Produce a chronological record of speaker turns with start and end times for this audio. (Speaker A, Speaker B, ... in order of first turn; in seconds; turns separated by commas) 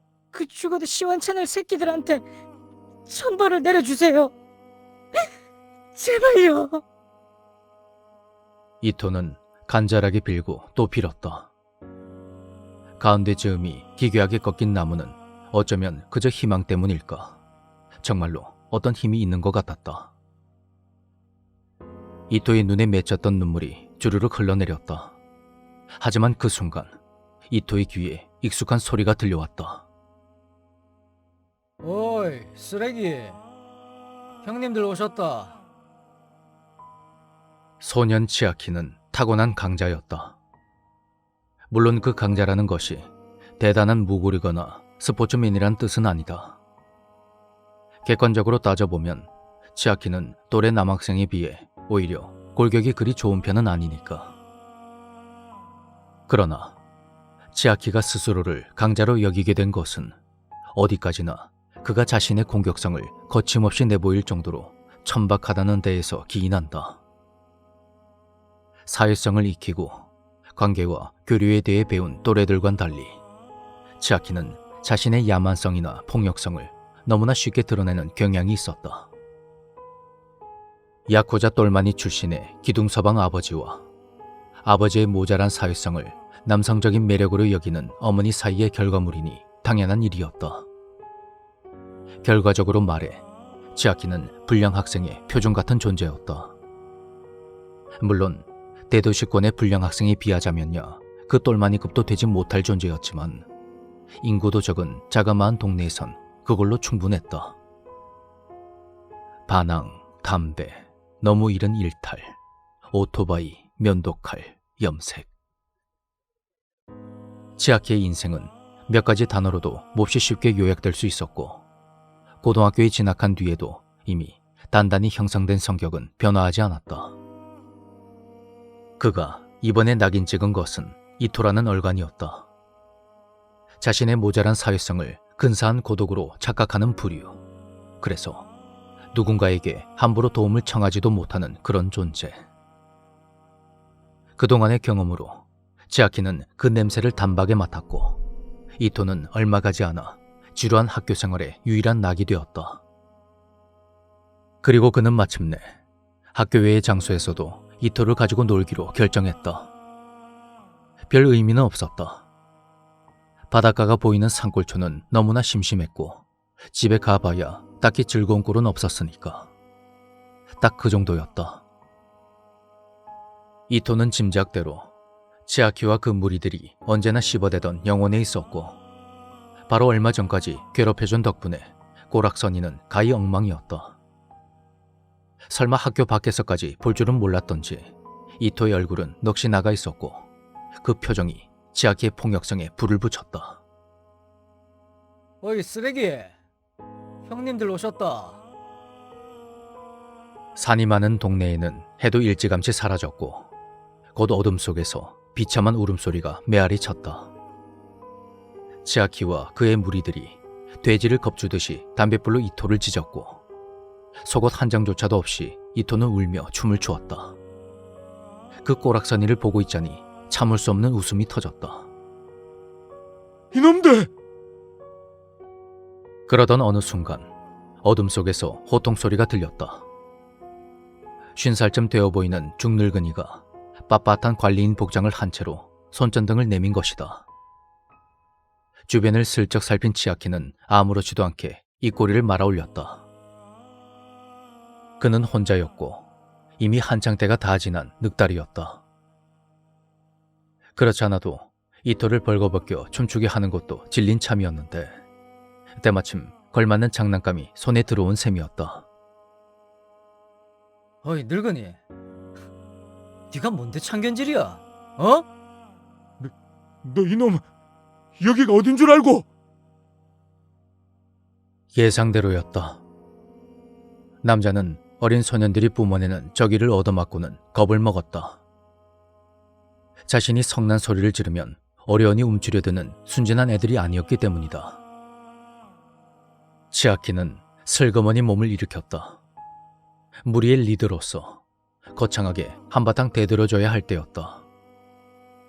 Speaker A: 0.3-2.3, Speaker A: 3.1-4.3, Speaker A: 5.9-6.8, Speaker B: 8.8-11.5, Speaker B: 13.0-17.4, Speaker B: 18.0-20.1, Speaker B: 22.3-25.2, Speaker B: 26.0-26.9, Speaker B: 27.5-29.9, Speaker C: 31.8-33.4, Speaker C: 34.4-35.6, Speaker B: 37.8-40.4, Speaker B: 41.7-46.6, Speaker B: 48.0-54.4, Speaker B: 56.3-56.8, Speaker B: 57.5-60.1, Speaker B: 60.8-67.0, Speaker B: 68.9-73.2, Speaker B: 74.0-79.1, Speaker B: 81.1-83.9, Speaker B: 84.6-90.7, Speaker B: 92.2-96.6, Speaker B: 98.0-103.5, Speaker B: 104.2-107.6, Speaker B: 109.5-112.4, Speaker B: 112.9-115.3, Speaker B: 117.6-121.6, Speaker B: 122.4-127.2, Speaker B: 129.0-132.5, Speaker B: 133.8-137.4, Speaker B: 138.0-138.5, Speaker B: 139.1-142.4, Speaker B: 144.4-148.2, Speaker B: 148.8-152.8, Speaker B: 154.6-155.8, Speaker B: 156.3-159.7, Speaker B: 161.1-162.2, Speaker B: 163.5-169.5, Speaker B: 170.6-171.6, Speaker B: 173.7-174.9, Speaker B: 175.5-178.8, Speaker B: 179.7-184.0, Speaker B: 185.5-190.3, Speaker B: 190.8-193.6, Speaker C: 195.4-196.4, Speaker C: 197.3-198.4, Speaker B: 200.6-203.5, Speaker B: 204.1-207.3, Speaker B: 208.8-213.4, Speaker B: 214.2-217.4, Speaker B: 218.6-221.9, Speaker D: 223.5-224.1, Speaker B: 226.3-227.3, Speaker B: 227.8-229.9, Speaker B: 231.4-237.3, Speaker B: 238.9-243.1, Speaker B: 245.0-246.1, Speaker B: 246.6-248.8, Speaker B: 250.8-255.0, Speaker B: 255.8-258.9, Speaker C: 261.0-261.8, Speaker C: 263.3-265.3, Speaker D: 266.8-267.4, Speaker D: 268.2-269.3, Speaker B: 271.7-272.8, Speaker B: 274.2-278.4, Speaker B: 280.1-284.8, Speaker B: 286.7-289.2, Speaker B: 290.2-291.4, Speaker B: 291.9-294.4